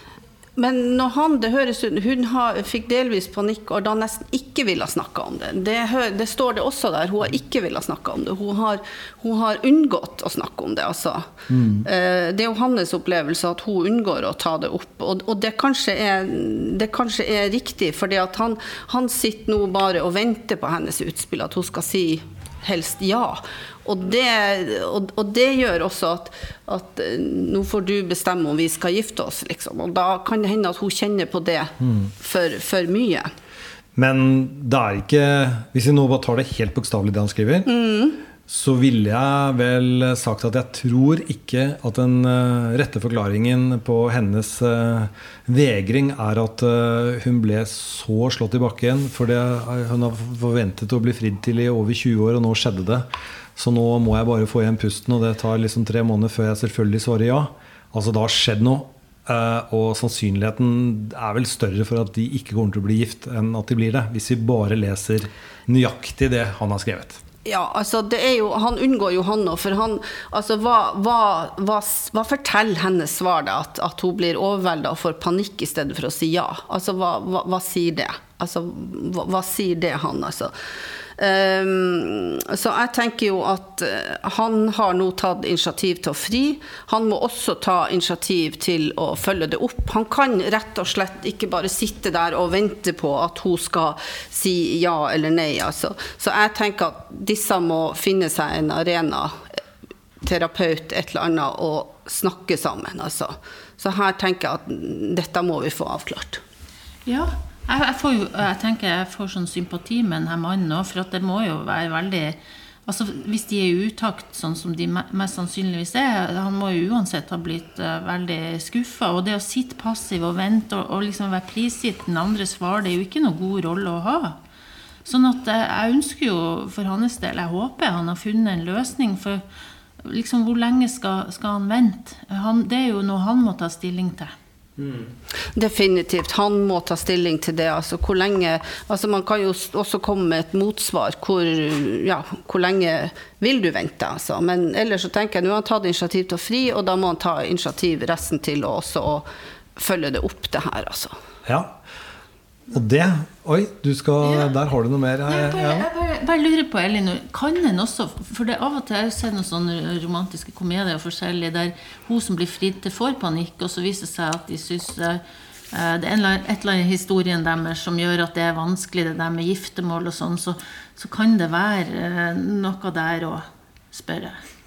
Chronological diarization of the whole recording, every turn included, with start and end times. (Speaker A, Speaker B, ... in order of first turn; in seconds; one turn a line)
Speaker A: 0.6-33.3
Speaker B: 11.5-11.9
Speaker B: 34.0-37.7
Speaker A: 37.7-38.2
Speaker B: 38.5-67.2
Speaker A: 67.5-80.5
Speaker A: 81.2-99.5
Speaker A: 100.2-106.4
Speaker C: 107.1-124.4
Speaker C: 125.0-129.4
Speaker C: 130.0-134.3
Speaker B: 134.8-135.1
Speaker A: 135.5-151.2
Speaker B: 151.4-151.8
Speaker B: 152.7-155.9
Speaker C: 155.3-174.4